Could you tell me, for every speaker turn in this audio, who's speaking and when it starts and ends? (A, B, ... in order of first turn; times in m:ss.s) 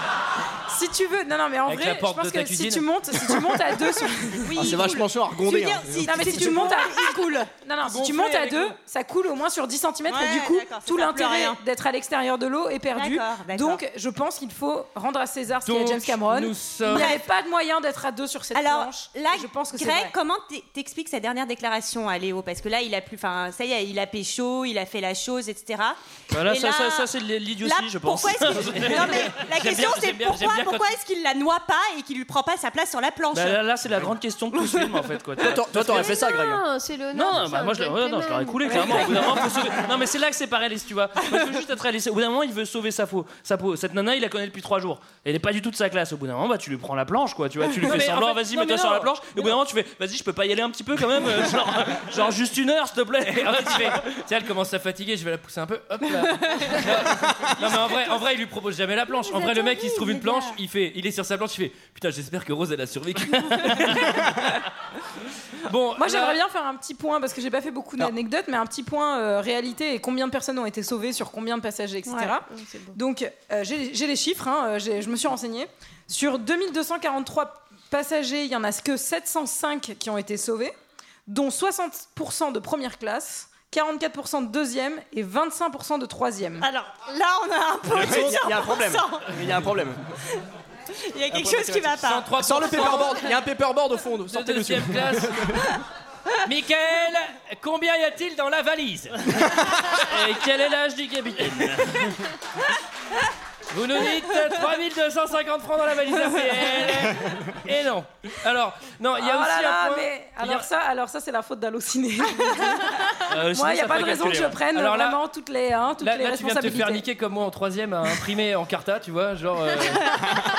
0:00.7-0:04.7 A
0:01.7-0:02.9 B
0:04.4-0:07.6 C
0:04.6-0:06.4 D
0:06.0-0:20.1 A
0:07.8-0:08.8 B
0:10.1-0:11.6 C
0:12.9-0:13.8 C
0:15.6-0:17.2 B
0:16.9-0:17.3 C
0:18.5-0:33.6 C
0:26.3-0:29.4 E
0:28.6-0:30.9 B
0:33.3-0:36.2 E
0:35.4-0:36.6 D
0:35.8-0:39.7 F
0:37.1-0:54.0 E
0:38.8-0:39.1 A
0:47.8-0:49.5 B
0:53.4-1:04.6 B
0:59.1-1:00.5 F
1:05.6-1:06.4 B
1:06.0-1:20.7 A
1:12.1-1:12.3 C
1:12.5-1:13.0 F
1:21.3-1:26.7 A
1:26.6-1:29.3 C
1:27.9-1:30.1 D
1:31.0-1:33.1 C
1:31.3-1:33.3 B
1:32.4-1:35.7 D
1:34.3-1:35.5 B
1:36.4-1:42.2 B
1:39.5-1:39.8 D
1:43.7-1:50.7 B
1:49.2-1:57.0 A
1:53.3-1:54.6 E
1:54.7-1:55.2 B
1:56.0-2:00.2 B